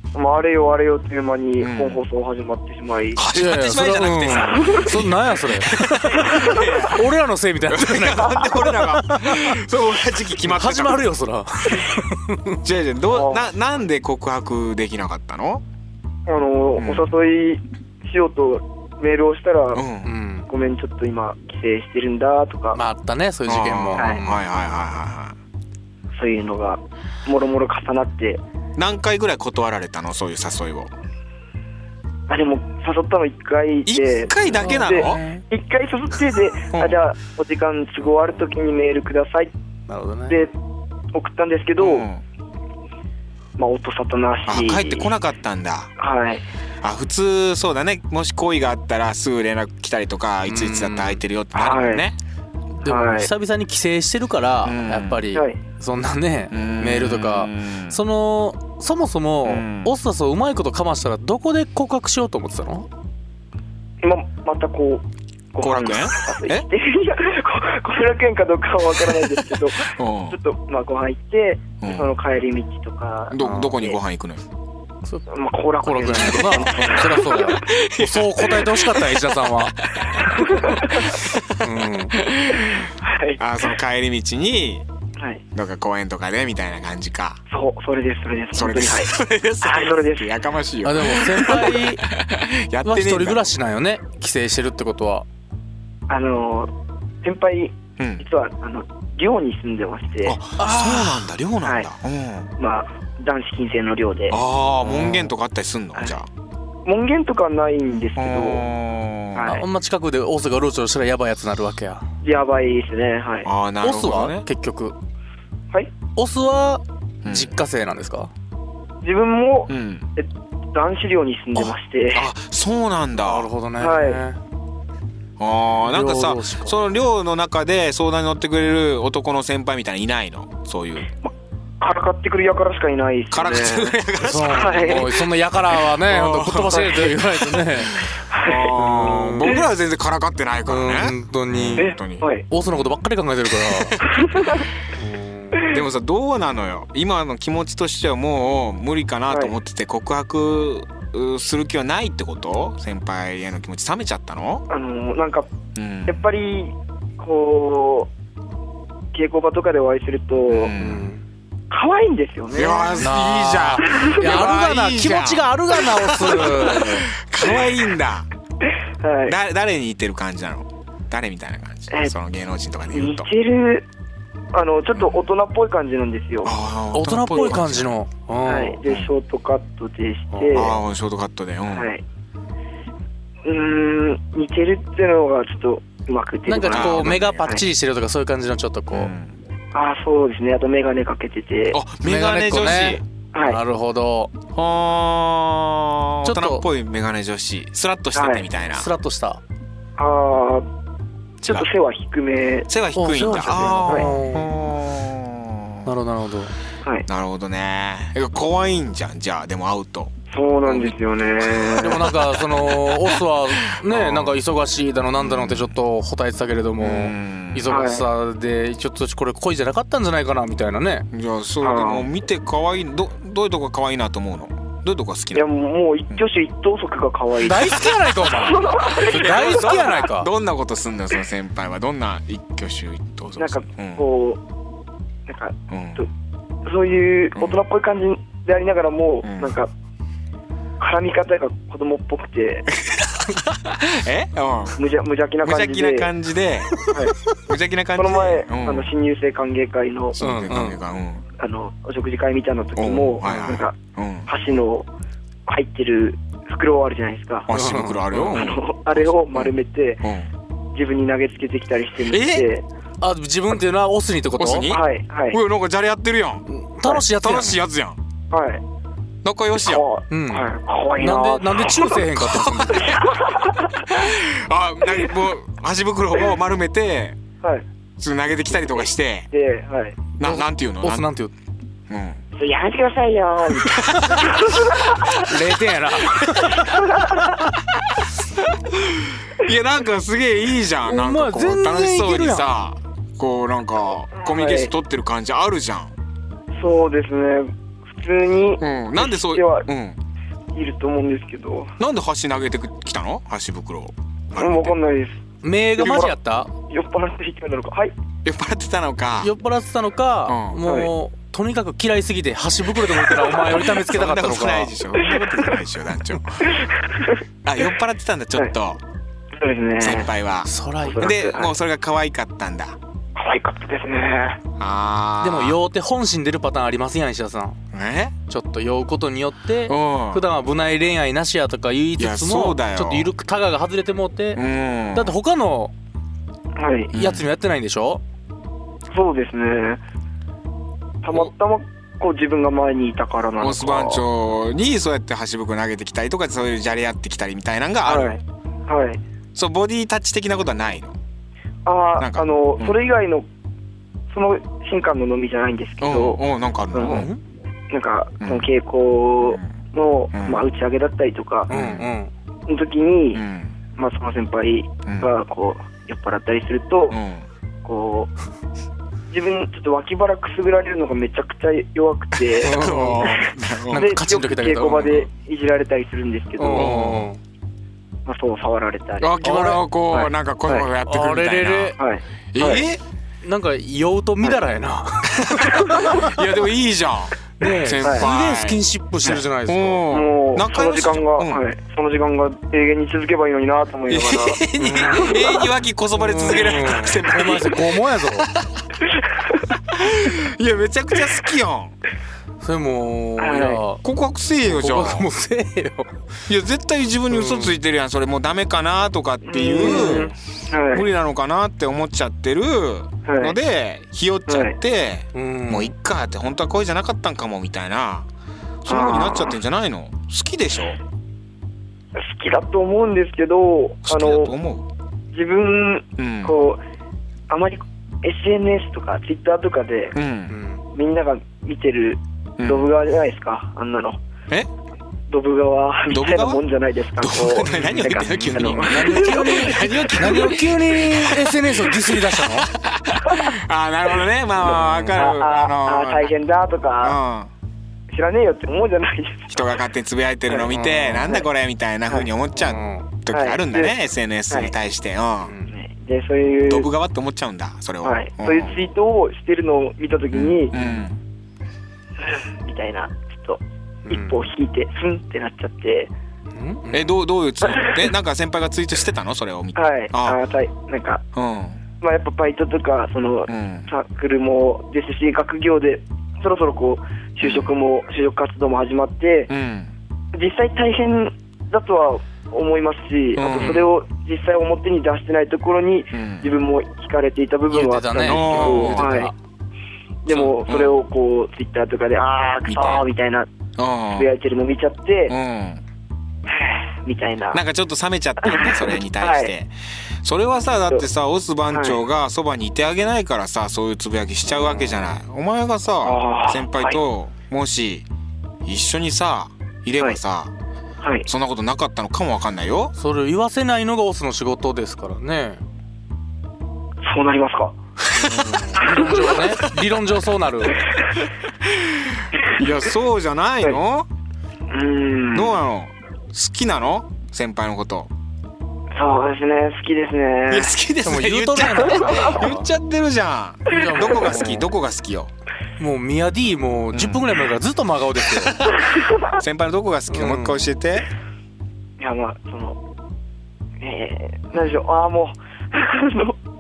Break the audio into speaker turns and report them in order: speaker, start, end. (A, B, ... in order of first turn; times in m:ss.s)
0:00.1-0:03.2 A
0:01.6-0:02.0 B
0:03.2-0:07.1 B
0:03.2-0:09.6 C
0:04.5-0:04.9 A
0:06.2-0:06.7 A
0:07.7-0:11.1 B
0:10.4-0:12.6 C
0:12.6-0:15.6 B
0:13.1-0:13.5 A
0:16.3-0:19.8 A
0:16.8-0:17.2 B
0:19.7-0:20.1 B
0:20.0-0:20.5 C
0:20.5-0:22.8 A
0:22.7-0:24.4 C
0:23.5-0:25.4 B
0:24.0-0:24.2 A
0:26.1-0:28.4 A
0:28.8-0:30.9 B
0:32.3-0:39.5 A
0:33.9-0:35.2 B
0:34.4-0:35.4 C
0:36.7-0:37.0 B
0:39.9-0:40.4 C
0:41.1-0:42.1 A
0:41.8-0:42.2 B
0:43.6-0:45.1 A
0:44.5-0:45.9 B
0:46.0-0:46.4 A
0:46.8-0:52.2 B
0:50.5-0:51.2 C
0:51.5-0:52.0 A
0:52.8-1:02.9 C
0:52.8-0:53.3 A
0:54.6-0:55.2 B
0:55.3-0:55.6 A
0:56.5-0:58.0 B
0:59.4-0:59.9 B
1:04.0-1:14.0 A
1:05.6-1:06.7 B
1:09.8-1:10.4 B
1:11.8-1:12.1 B
1:13.3-1:14.4 B
1:13.4-1:13.8 C
1:15.3-1:17.4 A
1:15.8-1:19.8 C
1:16.6-1:24.8 B
1:20.0-1:21.1 A
1:20.4-1:21.1 C
1:21.6-1:22.2 C
1:22.9-1:23.4 A
1:25.2-1:25.4 A
1:25.5-1:27.4 B
1:27.5-1:30.3 A
1:28.5-1:33.5 B
1:30.8-1:32.1 C
1:32.8-1:35.2 C
1:36.1-1:36.7 A
1:37.2-1:40.4 A
1:38.0-1:38.2 B
1:40.2-1:42.5 B
1:40.6-1:41.3 C
1:42.6-1:44.4 A
1:44.3-1:46.3 B
1:44.8-1:45.3 C
1:46.9-1:48.6 A
1:48.2-1:49.5 B
1:49.3-1:49.6 A
1:49.5-1:52.1 C
1:52.2-1:53.5 A
1:53.4-1:54.4 B
1:53.8-1:55.0 C
1:56.2-1:58.3 C
1:57.2-1:57.6 B
1:59.0-2:02.3 A
1:59.7-2:00.1 B
2:01.6-2:03.5 B
2:03.2-2:04.4 C
2:03.8-2:04.2 A
2:05.4-2:11.1 B
2:05.9-2:06.8 C
2:11.2-2:14.0 A
2:13.3-2:23.0 B
2:14.2-2:18.1 C
2:14.5-2:15.1 A
2:18.3-2:18.8 A
2:18.8-2:19.5 C
2:20.7-2:21.9 C
2:21.8-2:22.4 A
2:22.5-2:24.1 C
2:23.5-2:24.0 B
2:24.1-2:24.7 A
2:25.0-2:25.7 C
2:25.7-2:34.6 B
2:34.7-2:35.5 A
2:35.8-2:36.3 B
2:36.1-2:38.1 A
2:39.1-2:40.8 A
2:40.5-2:41.1 B
2:40.8-2:41.2 C
2:41.7-2:43.1 A
2:42.5-2:48.3 B
2:43.0-2:47.1 C
2:43.8-2:44.3 A
2:49.0-2:49.4 A
2:49.3-2:53.3 B
2:51.9-2:52.2 A
2:52.9-2:53.8 A
2:54.5-2:56.5 A
2:56.4-2:57.9 B
2:56.9-2:58.8 C
2:58.5-3:00.7 A
3:00.3-3:00.7 C
3:00.5-3:01.9 B
3:01.7-3:02.0 A
3:03.4-3:07.6 A
3:06.5-3:09.1 C
3:06.7-3:07.5 B
3:08.9-3:09.4 B
3:09.7-3:11.8 A
3:11.7-3:13.0 B
3:12.0-3:14.3 C
3:13.3-3:13.6 A
3:14.6-3:18.9 B
3:16.2-3:16.6 C
3:18.2-3:18.5 A
3:18.7-3:19.4 C
3:20.0-3:20.7 A
3:21.4-3:21.7 B
3:21.4-3:22.7 A
3:22.7-3:25.9 B
3:23.0-3:24.5 C
3:25.8-3:26.6 C
3:27.1-3:30.1 B
3:30.3-3:32.1 A
3:30.6-3:34.4 B
3:31.8-3:41.1 C
3:35.2-3:35.8 B
3:36.8-3:37.7 B
3:37.7-3:38.0 A
3:41.1-3:45.5 B
3:41.6-3:42.1 A
3:45.3-3:47.8 A
3:47.4-3:50.3 C
3:47.8-3:48.2 B
3:48.3-3:49.8 A
3:48.8-3:54.0 B
3:53.4-3:54.4 A
3:55.3-3:56.1 A
3:55.7-3:56.0 B
3:56.7-3:59.7 A
3:57.4-3:57.6 B
3:59.2-3:59.6 B
4:00.8-4:02.7 A
4:02.8-4:04.8 B
4:04.8-4:06.1 A
4:05.4-4:06.9 B
4:06.9-4:07.2 A
4:07.5-4:08.9 B
4:08.0-4:10.2 A
4:10.2-4:11.2 B
4:10.2-4:10.8 C
4:11.4-4:13.8 A
4:12.8-4:14.3 B
4:13.2-4:13.6 C
4:14.3-4:14.9 A
4:15.5-4:17.5 A
4:17.5-4:20.3 B
4:17.5-4:18.4 C
4:18.3-4:20.0 A
4:20.7-4:22.6 A
4:22.1-4:22.5 B
4:23.0-4:24.7 C
4:24.4-4:26.4 B
4:24.7-4:25.4 A
4:26.5-4:27.6 C
4:27.1-4:28.0 B
4:28.3-4:28.6 A
4:29.2-4:29.8 B
4:29.6-4:32.0 A
4:30.1-4:33.0 C
4:32.2-4:33.1 B
4:32.8-4:33.9 A
4:33.8-4:37.2 B
4:38.0-4:39.3 B
4:38.5-4:40.0 A
4:40.2-4:41.1 B
4:40.2-4:41.3 C
4:41.9-4:42.2 B
4:42.4-4:45.2 A
4:43.7-4:45.1 B
4:45.1-4:47.5 C
4:46.2-4:46.6 B
4:46.5-4:47.3 A
4:47.9-4:55.9 B
4:50.9-4:52.4 C
4:54.2-4:54.7 A
4:56.6-4:59.7 A
4:58.6-5:00.0 B
5:00.5-5:01.7 A
5:01.8-5:04.8 B
5:04.4-5:05.2 A
5:05.4-5:06.5 C
5:05.8-5:06.1 A
5:06.7-5:07.9 A
5:08.2-5:09.3 B
5:09.2-5:14.7 C
5:10.3-5:10.6 B
5:13.5-5:16.5 B
5:15.0-5:15.5 A
5:16.4-5:17.2 A
5:17.4-5:18.8 B
5:19.4-5:20.1 A
5:19.8-5:22.8 B
5:20.5-5:21.1 C
5:20.8-5:21.5 A
5:23.2-5:24.4 A
5:24.6-5:25.6 B
5:25.2-5:27.6 C
5:27.7-5:28.1 B
5:28.3-5:34.4 C
5:29.7-5:30.2 B
5:32.0-5:33.1 B
5:34.4-5:35.2 B
5:34.9-5:35.7 C
5:36.6-5:36.9 A
5:36.9-5:38.0 C
5:36.9-5:37.3 B
5:38.9-5:39.8 A
5:41.0-5:44.0 A
5:43.4-5:48.2 B
5:47.8-5:49.0 A
5:49.4-5:51.0 B
5:51.7-5:53.3 A
5:52.0-5:52.8 B
5:54.1-5:56.2 A
5:55.8-5:57.1 B
5:56.7-5:57.0 A
5:56.8-5:57.2 C
5:57.7-6:01.5 A
5:58.2-5:58.5 B
5:59.2-5:59.5 B
6:00.1-6:00.4 B
6:01.5-6:02.1 C
6:01.5-6:01.9 B
6:02.5-6:03.2 A
6:03.1-6:03.6 B
6:03.8-6:07.0 A
6:04.8-6:05.1 B
6:06.9-6:07.3 B
6:07.6-6:08.1 A
6:09.1-6:16.8 A
6:12.3-6:13.9 B
6:12.4-6:15.1 C
6:16.4-6:17.2 C
6:16.6-6:17.1 B
6:18.1-6:19.1 A
6:19.0-6:21.8 B
6:19.2-6:19.6 C
6:19.9-6:20.7 A
6:20.9-6:21.8 C
6:21.8-6:22.7 A
6:22.3-6:22.8 B
6:23.2-6:26.2 C
6:25.1-6:31.4 B
6:27.4-6:29.8 C
6:29.9-6:34.4 A
6:33.9-6:38.6 B
6:34.6-6:38.3 C
6:39.7-6:41.8 B
6:42.4-6:43.8 C
6:43.2-6:43.6 A
6:43.8-6:45.1 B
6:44.5-6:45.9 C
6:46.3-6:50.1 B
6:47.1-6:47.6 C
6:49.2-6:50.8 A
6:49.6-6:50.1 C
6:50.7-6:58.1 B
6:53.0-6:53.4 A
6:54.3-6:54.6 A
6:55.1-6:55.7 C
6:58.6-7:00.8 B
6:58.7-6:59.4 A
7:02.0-7:04.3 A
7:03.8-7:04.7 B
7:05.1-7:06.6 A
7:06.0-7:06.4 B
7:07.3-7:10.0 A
7:09.9-7:10.4 B
7:10.3-7:10.6 C
7:10.7-7:14.0 A
7:12.4-7:12.7 B
7:15.1-7:19.6 A
7:15.9-7:16.4 B
7:17.0-7:26.1 B
7:17.4-7:22.5 C
7:23.0-7:23.3 A
7:24.4-7:27.0 A
7:24.6-7:25.0 C
7:26.8-7:27.3 B
7:27.9-7:29.4 A
7:29.3-7:35.4 B
7:30.3-7:31.3 A
7:30.5-7:31.1 C
7:32.4-7:32.9 C
7:33.1-7:33.7 A
7:35.2-7:35.5 C
7:35.5-7:36.7 A
7:36.5-7:38.6 B
7:37.8-7:40.5 A
7:40.1-7:41.0 B
7:40.5-7:40.8 C
7:42.1-7:45.9 A
7:43.9-7:44.2 C
7:46.4-7:47.0 C
7:46.7-7:50.2 B
7:47.5-7:47.8 A
7:49.6-7:51.0 A
7:51.1-7:51.6 B
7:51.8-7:59.3 A
7:53.3-7:53.7 B
7:57.2-7:57.5 B
7:59.3-7:59.7 B
8:00.1-8:09.1 A
8:03.2-8:03.7 B
8:03.3-8:03.6 C
8:05.9-8:06.3 B
8:07.5-8:09.1 C
8:08.0-8:09.0 B
8:10.0-8:13.3 A
8:10.1-8:10.8 B
8:12.5-8:12.8 B
8:13.6-8:14.1 B
8:13.9-8:15.2 A
8:15.1-8:15.6 B
8:16.3-8:17.4 A
8:17.3-8:19.5 B
8:18.2-8:19.3 A
8:20.0-8:27.9 B
8:21.5-8:21.8 A
8:25.8-8:26.8 A
8:28.4-8:30.3 B
8:30.8-8:31.1 A
8:31.1-8:32.7 B
8:32.8-8:35.4 C
8:36.8-8:37.6 A
8:37.9-8:40.6 C
8:38.1-8:38.8 B
8:38.6-8:39.2 A
8:41.5-8:43.9 B
8:44.5-8:45.4 A
8:45.1-8:47.9 B
8:48.8-8:50.5 A
8:50.3-8:55.1 B
8:50.8-8:52.5 C
8:51.8-8:52.1 A
8:53.5-8:54.4 C
8:53.7-8:54.3 A
8:55.6-8:58.4 C
8:56.7-8:57.2 B
8:58.2-8:58.6 B
8:58.7-8:59.2 A
8:59.1-9:00.9 B
8:59.9-9:00.5 C
9:01.8-9:02.6 A
9:03.6-9:06.2 A